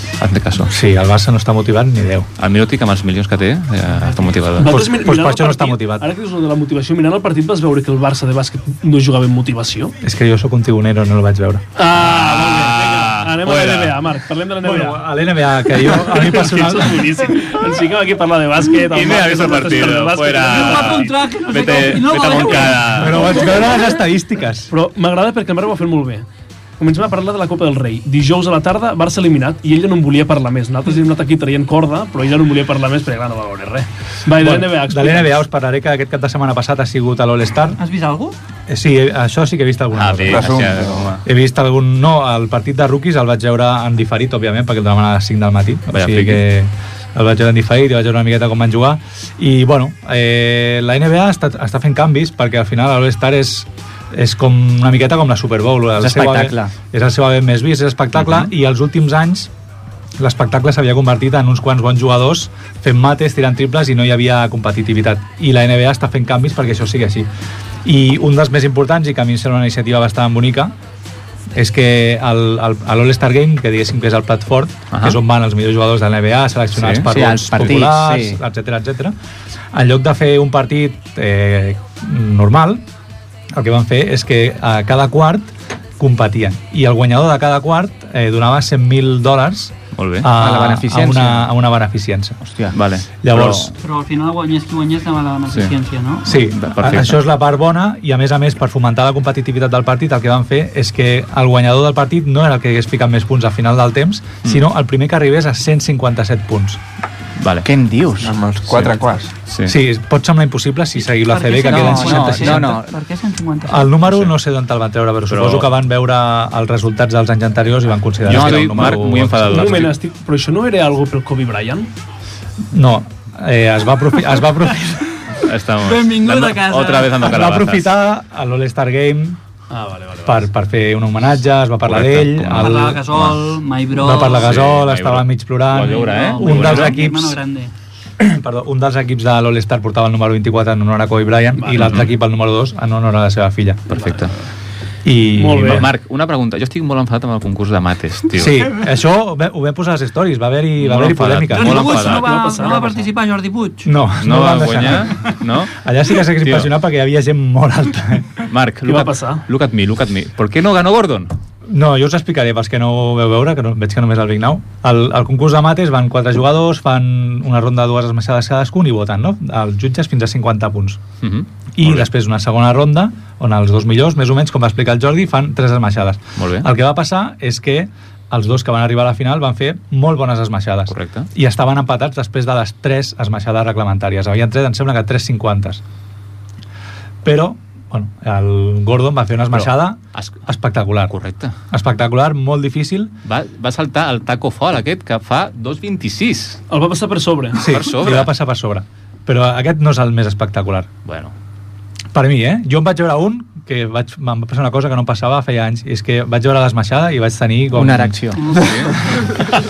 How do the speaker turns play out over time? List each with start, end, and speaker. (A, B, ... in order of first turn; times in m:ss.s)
0:00.2-0:00.7 A
0:00.6-0:02.3 B
0:02.4-0:04.8 A
0:04.6-0:09.9 C
0:04.6-0:06.1 B
0:10.0-0:11.6 B
0:11.8-0:15.1 C
0:11.9-0:14.0 A
0:14.6-0:17.4 B
0:15.7-0:21.1 C
0:18.9-0:23.7 A
0:20.4-0:23.6 D
0:22.9-0:24.7 B
0:24.7-0:26.2 C
0:26.8-0:35.4 C
0:34.3-0:37.8 B
0:37.8-0:38.4 D
0:38.7-0:40.7 B
0:39.9-0:41.2 A
0:40.3-0:41.1 E
0:41.2-0:59.5 B
0:45.9-0:46.4 A
0:56.0-0:56.7 F
1:00.2-1:07.3 B
1:07.8-1:10.7 B
1:11.5-1:19.1 B
1:14.9-1:15.2 A
1:16.8-1:17.1 A
1:17.1-1:18.4 F
1:19.7-1:22.8 B
1:23.5-1:32.4 B
1:29.9-1:30.3 A
1:30.3-1:31.4 F
1:32.4-1:32.8 F
1:32.7-1:33.7 A
1:33.2-1:33.7 B
1:33.8-1:36.4 D
1:35.5-1:35.7 A
1:36.2-1:46.8 B
1:36.3-1:37.2 A
1:47.4-1:47.7 A
1:47.6-1:48.4 F
1:48.2-1:49.3 E
1:49.5-1:49.8 A
1:49.6-1:52.7 B
1:51.0-1:54.0 D
1:51.7-1:52.9 F
1:53.7-1:59.8 B
1:54.1-1:54.3 A
1:55.3-1:55.7 A
1:58.2-1:59.9 A
1:59.5-2:01.9 C
2:02.7-2:05.0 B
2:05.4-2:07.9 A
2:05.8-2:07.3 D
2:07.2-2:09.4 B
2:09.7-2:10.4 C
2:10.2-2:13.0 B
2:11.8-2:13.6 A
2:12.5-2:14.6 D
2:14.0-2:17.4 B
2:14.3-2:17.0 A
2:15.8-2:17.7 D
2:18.2-2:23.9 B
2:21.6-2:22.0 C
2:21.8-2:22.1 A
2:23.9-2:24.3 A
2:23.9-2:24.3 C
2:25.0-2:25.9 B
2:25.3-2:25.9 C
2:25.7-2:28.7 A
2:28.4-2:32.0 B
2:30.8-2:33.1 A
2:31.5-2:33.9 D
2:31.9-2:32.9 C
2:33.8-2:35.2 B
2:34.2-2:35.8 A
2:35.8-2:38.3 B
2:36.4-2:36.7 A
2:38.5-2:41.3 A
2:38.8-2:39.4 C
2:41.7-2:51.0 B
2:51.2-2:52.1 A
2:51.8-3:05.8 B
2:56.4-2:56.7 A
3:00.9-3:01.3 A
3:07.2-3:11.1 B
3:09.5-3:10.4 A
3:11.0-3:11.5 A
3:11.7-3:13.1 B
3:13.2-3:16.6 A
3:16.7-3:17.7 C
3:17.6-3:20.9 B
3:17.6-3:18.3 A
3:21.0-3:21.3 A
3:22.1-3:28.2 B
3:27.7-3:28.4 F
3:28.3-3:29.3 D
3:28.5-3:28.9 A